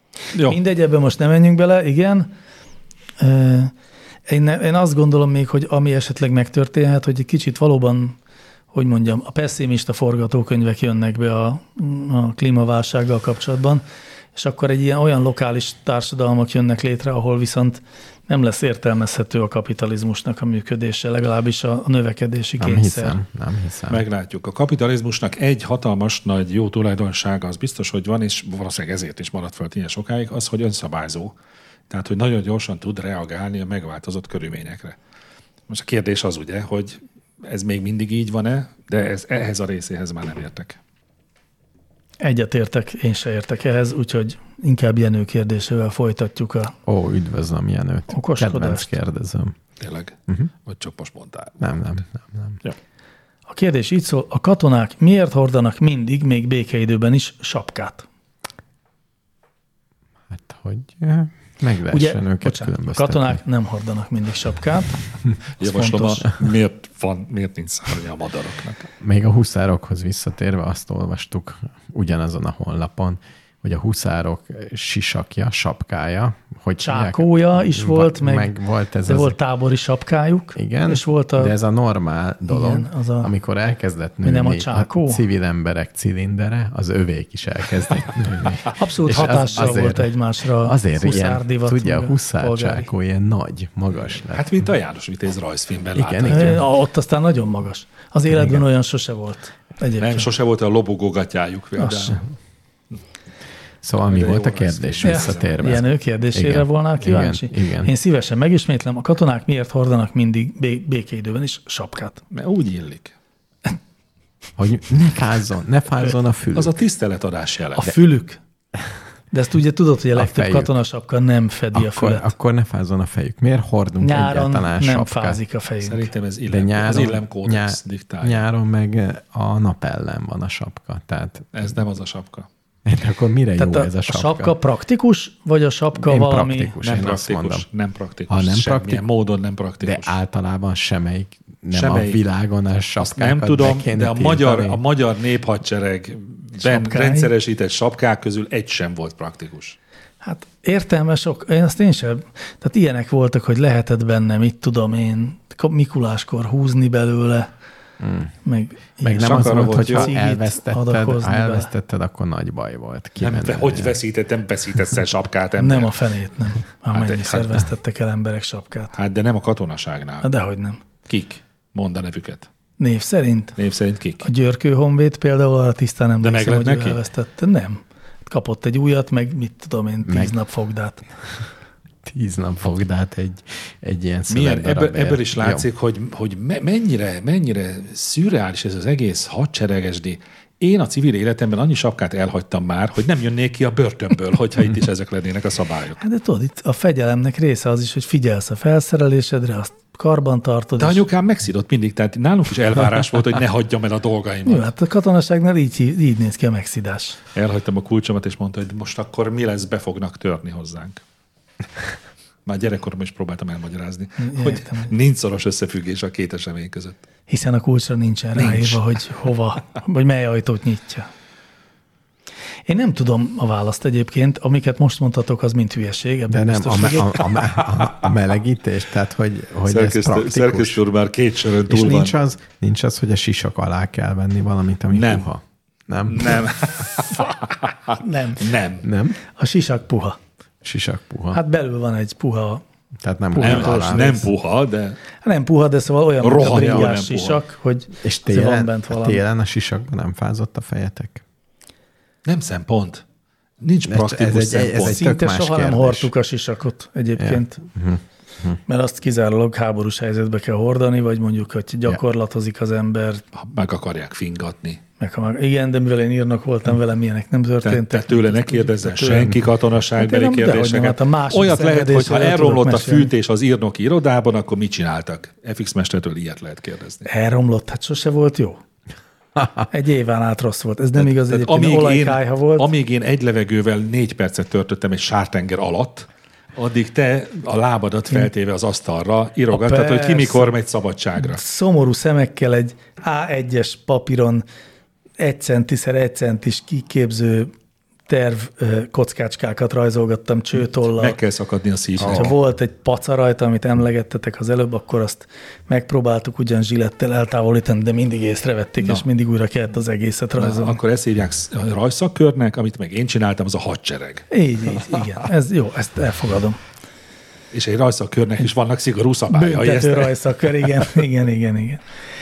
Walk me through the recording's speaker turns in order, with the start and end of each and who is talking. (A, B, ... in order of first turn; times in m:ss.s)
0:00.3-0:00.6 A
0:00.4-0:02.3 B
0:03.2-0:03.7 B
0:04.3-0:08.2 B
0:08.7-0:13.8 B
0:14.3-0:23.2 B
0:22.6-0:24.0 C
0:23.9-0:31.3 A
0:31.9-0:35.0 A
0:35.7-0:40.8 A
0:42.2-0:46.7 B
0:46.8-0:49.6 C
0:48.1-0:49.0 B
0:49.8-0:51.8 A
0:51.6-0:52.6 C
0:53.5-0:58.0 B
1:00.3-1:03.4 C
1:01.9-1:05.0 B
1:05.6-1:06.2 B
1:05.6-1:08.9 A
1:09.0-1:19.4 C
1:16.8-1:18.5 B
1:19.0-1:21.5 B
1:20.6-1:34.6 C
1:22.5-1:23.3 B
1:24.2-1:25.2 B
1:28.7-1:32.9 B
1:34.1-1:36.6 A
1:35.9-1:36.6 C
1:36.3-1:40.3 B
1:38.3-1:38.6 C
1:40.0-1:42.2 A
1:41.8-1:42.2 B
1:43.8-1:47.9 C
1:44.1-1:45.7 A
1:45.0-1:52.2 B
1:52.3-1:53.1 A
1:54.6-1:56.7 C
1:56.5-1:58.0 A
1:57.8-1:58.4 B
1:59.3-2:02.3 B
2:00.1-2:00.7 C
2:01.7-2:05.4 C
2:04.0-2:06.1 B
2:05.8-2:08.4 A
2:06.5-2:11.8 C
2:11.5-2:12.5 A
2:12.8-2:14.6 C
2:13.6-2:16.8 B
2:15.9-2:17.6 C
2:16.8-2:20.2 A
2:18.3-2:19.0 C
2:19.8-2:24.8 C
2:21.7-2:22.2 A
2:23.0-2:29.8 A
2:26.6-2:27.3 B
2:30.2-2:37.5 B
2:38.0-2:38.3 C
2:38.4-2:41.7 B
2:39.0-2:44.0 C
2:39.2-2:40.1 A
2:43.2-2:45.9 A
2:45.6-2:48.9 B
2:46.9-2:47.6 A
2:48.9-2:50.3 A
2:50.2-2:50.8 B
2:51.1-2:52.5 A
2:52.8-2:53.5 B
2:53.6-2:54.3 A
2:54.2-3:01.0 B
2:56.2-2:57.0 A
3:00.0-3:00.3 C
3:02.0-3:05.6 C
3:04.3-3:16.0 A
3:16.0-3:21.0 B
3:20.8-3:24.7 A
3:24.4-3:27.2 B
3:27.3-3:31.0 A
3:32.4-3:37.0 A
3:34.2-3:34.9 B
3:37.3-3:41.1 B
3:38.4-3:38.8 A
3:42.6-3:47.4 B
3:46.3-3:50.8 C
3:49.7-3:52.1 A
3:51.7-3:56.5 C
3:54.9-3:55.3 A
3:56.1-3:58.9 A
3:58.0-3:58.5 B
3:58.8-3:59.2 C
3:59.3-4:00.2 B
4:00.6-4:01.4 C
4:01.3-4:02.6 B
4:03.0-4:04.1 C
4:03.3-4:04.3 B
4:03.4-4:05.0 A
4:05.2-4:09.2 B
4:06.2-4:07.4 A
4:08.0-4:11.2 C
4:12.2-4:13.0 A
4:13.6-4:15.0 A
4:13.9-4:16.1 C
4:14.8-4:17.6 B
4:17.2-4:18.6 C
4:18.7-4:23.2 B
4:23.3-4:24.8 A
4:25.0-4:29.4 B
4:27.6-4:37.0 A
4:30.0-4:33.1 B
4:37.0-4:38.6 B
4:39.7-4:42.7 B
4:41.0-4:51.4 A
4:49.5-4:50.5 B
4:51.2-4:54.4 B
4:55.2-4:57.5 B
4:58.1-5:01.2 B
5:00.8-5:02.3 A
5:02.0-5:02.3 C
5:02.0-5:10.8 B
5:10.4-5:14.3 A
5:14.3-5:16.6 B
5:17.5-5:20.2 A
5:19.3-5:21.8 B